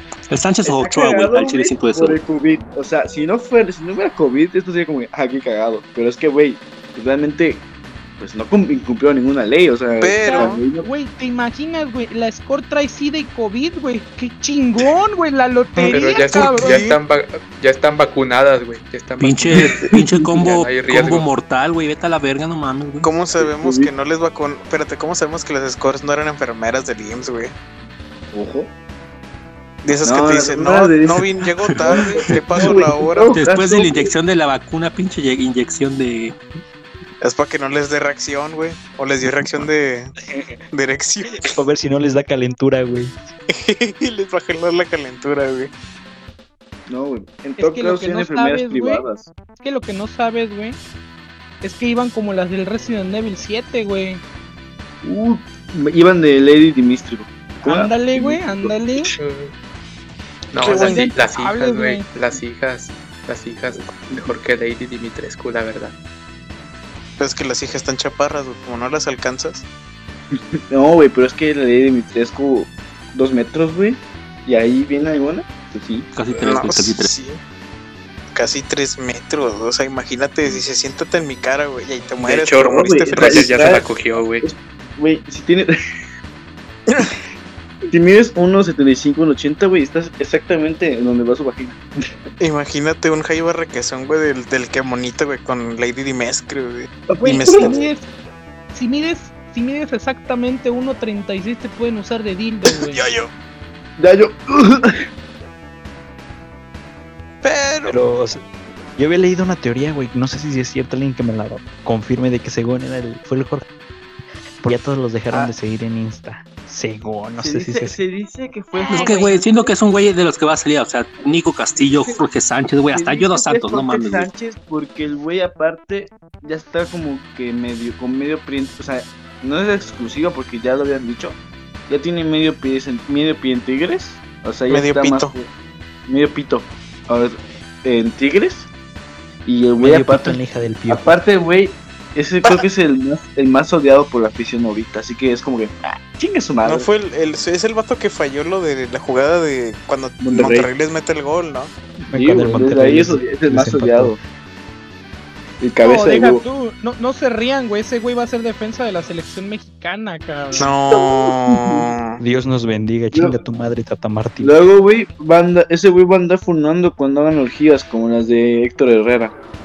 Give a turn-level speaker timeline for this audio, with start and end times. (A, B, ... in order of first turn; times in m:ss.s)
0:00.3-0:02.2 A
0:00.6-0:07.6 B
0:08.2-0:10.9 B
0:10.0-0:10.6 C
0:10.2-0:16.8 D
0:15.8-0:17.0 C
0:15.9-0:21.3 E
0:19.2-0:23.2 A
0:19.6-0:20.0 B
0:23.0-0:27.5 C
0:23.4-0:23.9 B
0:28.3-0:28.7 B
0:29.8-0:33.3 C
0:30.0-0:31.2 B
0:31.4-0:32.7 A
0:31.8-0:34.1 B
0:33.3-0:36.4 A
0:37.2-0:40.1 C
0:40.3-0:40.6 F
0:40.7-0:41.5 C
0:41.4-0:43.2 F
0:43.5-0:45.7 C
0:46.9-0:49.3 B
0:47.6-0:49.1 D
0:49.6-0:50.8 D
0:51.6-0:54.2 D
0:55.0-0:59.1 B
0:57.6-0:59.1 D
0:59.2-0:59.5 E
1:00.5-1:05.9 E
1:00.6-1:01.1 C
1:00.7-1:02.0 D
1:07.2-1:09.6 C
1:10.3-1:16.1 B
1:16.1-1:17.1 A
1:16.4-1:17.4 C
1:18.3-1:23.5 C
1:22.2-1:24.5 E
1:22.6-1:23.9 B
1:24.4-1:25.7 B
1:27.9-1:31.8 B
1:32.4-1:37.8 C
1:37.2-1:37.9 B
1:37.2-1:38.1 D
1:38.7-1:43.0 D
1:42.9-1:43.3 C
1:44.0-1:45.0 B
1:47.4-1:48.0 C
1:47.9-1:48.4 F
1:49.0-1:53.7 F
1:54.6-1:58.0 F
1:57.4-1:59.7 B
1:58.9-2:04.3 A
2:02.9-2:15.5 B
2:14.7-2:15.3 C
2:16.1-2:18.7 B
2:19.5-2:26.9 B
2:19.8-2:21.2 F
2:26.6-2:31.7 C
2:30.2-2:30.7 B
2:32.1-2:34.2 F
2:32.2-2:34.2 B
2:35.6-2:36.4 B
2:35.8-2:40.7 D
2:40.6-2:42.2 C
2:40.9-2:41.9 B
2:42.2-2:44.6 F
2:44.4-2:49.3 B